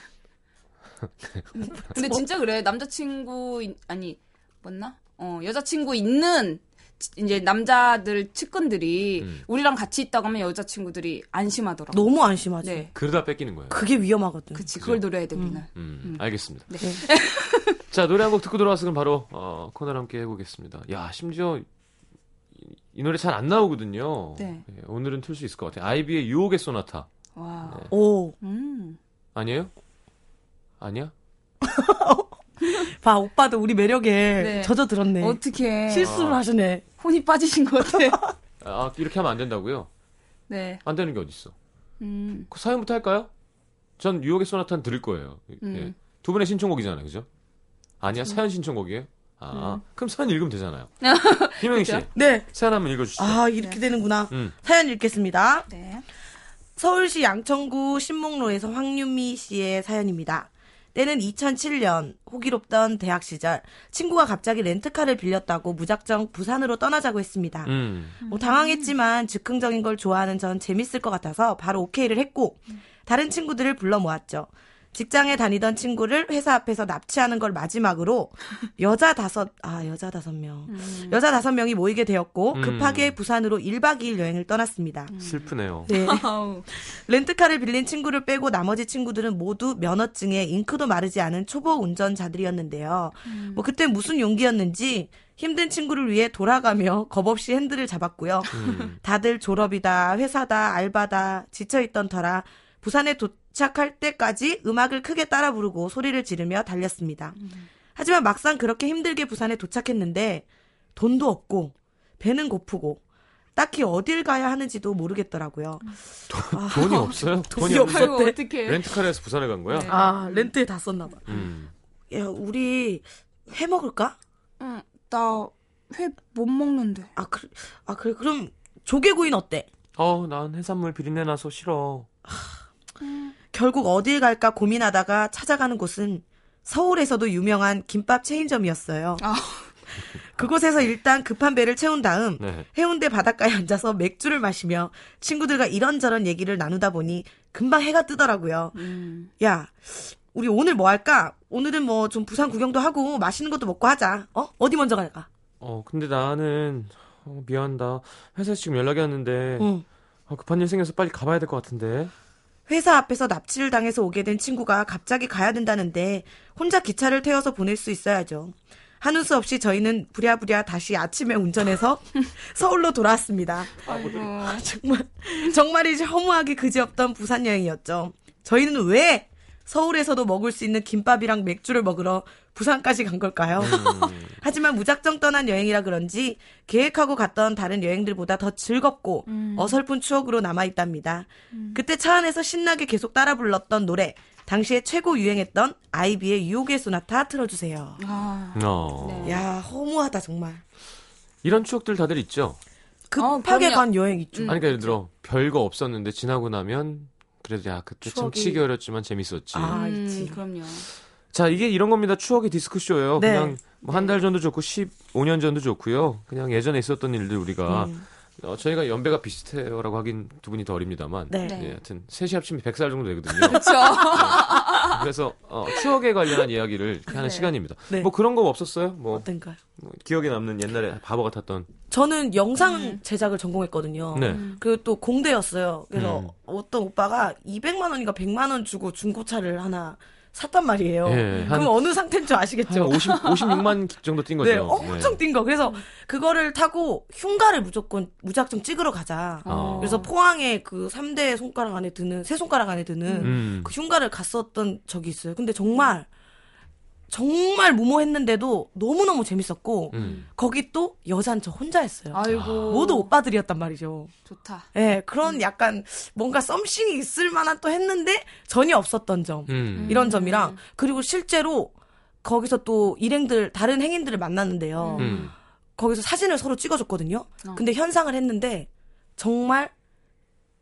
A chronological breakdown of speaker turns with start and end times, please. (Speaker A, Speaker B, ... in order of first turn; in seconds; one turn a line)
Speaker A: 1.0-1.4
Speaker B: 1.6-12.0
Speaker C: 1.9-2.2
Speaker C: 11.9-12.9
Speaker B: 12.6-12.9
Speaker A: 12.9-13.9
Speaker C: 13.7-14.7
Speaker B: 14.6-17.8
Speaker A: 14.8-15.0
Speaker A: 15.8-16.7
Speaker A: 17.9-21.7
Speaker A: 22.6-27.1
Speaker B: 24.4-24.6
Speaker B: 27.4-27.9
Speaker C: 27.9-28.4
Speaker B: 28.4-29.0
Speaker A: 29.4-29.7
Speaker A: 30.8-31.1
Speaker C: 31.6-36.8
Speaker B: 34.4-36.2
Speaker A: 36.0-36.4
Speaker B: 37.0-38.2
Speaker A: 38.6-39.9
Speaker B: 40.5-40.8
Speaker A: 40.9-41.5
Speaker B: 42.0-42.5
Speaker A: 42.5-43.3
Speaker A: 44.0-47.3
Speaker B: 45.6-45.9
Speaker A: 48.0-50.9
Speaker B: 49.5-49.8
Speaker B: 51.0-52.1
Speaker A: 51.6-53.4
Speaker C: 52.2-52.5
Speaker C: 53.2-55.7
Speaker B: 55.7-56.0
Speaker C: 56.8-85.1
Speaker A: 67.7-68.2
Speaker B: 68.2-68.9
Speaker B: 80.7-81.2
Speaker A: 82.5-83.2
Speaker B: 85.1-86.7
Speaker A: 85.2-85.9
Speaker C: 85.9-107.4
Speaker B: 93.3-93.7
Speaker A: 98.5-99.0
Speaker B: 98.6-98.9
Speaker B: 107.4-107.7
Speaker C: 108.0-110.5
Speaker C: 111.0-113.0
Speaker C: 113.6-115.9
Speaker A: 116.3-120.0
Speaker C: 116.5-118.4
Speaker B: 117.6-118.8
Speaker B: 119.7-120.5
Speaker C: 119.9-121.4
Speaker A: 121.3-121.7
Speaker C: 122.1-124.2
Speaker B: 124.6-127.1
Speaker C: 127.2-129.7
Speaker A: 130.0-132.1
Speaker B: 133.0-133.3
Speaker C: 133.5-139.2
Speaker B: 139.2-139.7
Speaker C: 140.3-148.8
Speaker A: 142.4-142.7
Speaker B: 148.7-149.3
Speaker C: 149.4-155.3
Speaker A: 155.6-159.7
Speaker C: 159.6-159.8
Speaker A: 160.3-162.1
Speaker C: 162.7-198.0
Speaker B: 173.8-174.7
Speaker A: 183.6-184.3
Speaker B: 183.7-184.1
Speaker B: 189.3-189.8
Speaker B: 191.5-191.8
Speaker B: 198.0-199.4
Speaker A: 198.6-199.4
Speaker C: 199.2-200.6
Speaker A: 201.4-202.6
Speaker C: 203.1-204.6
Speaker B: 203.2-204.9
Speaker A: 204.5-209.8
Speaker C: 208.1-208.6
Speaker C: 209.5-210.4
Speaker B: 209.7-210.9
Speaker A: 211.3-229.3
Speaker C: 213.2-213.6
Speaker B: 213.9-214.1
Speaker C: 217.7-218.0
Speaker C: 221.3-221.6
Speaker B: 221.4-221.8
Speaker B: 223.4-225.0
Speaker B: 227.1-227.5
Speaker C: 229.1-229.6
Speaker A: 229.8-231.7
Speaker C: 231.9-243.1
Speaker B: 232.6-233.0
Speaker A: 234.1-234.4
Speaker B: 234.3-234.6
Speaker A: 235.9-236.3
Speaker A: 241.1-241.8
Speaker B: 241.3-241.6
Speaker A: 242.7-245.2
Speaker C: 244.4-256.1
Speaker B: 249.4-250.1
Speaker A: 249.5-250.1
Speaker B: 253.1-253.4
Speaker A: 253.2-253.7
Speaker C: 257.1-264.1
Speaker A: 259.9-260.2
Speaker B: 259.9-260.2
Speaker B: 262.1-263.1
Speaker A: 262.3-262.9
Speaker B: 264.3-264.7
Speaker C: 264.7-279.7
Speaker A: 269.5-270.1
Speaker B: 269.8-270.6
Speaker B: 274.8-275.3
Speaker A: 275.0-275.3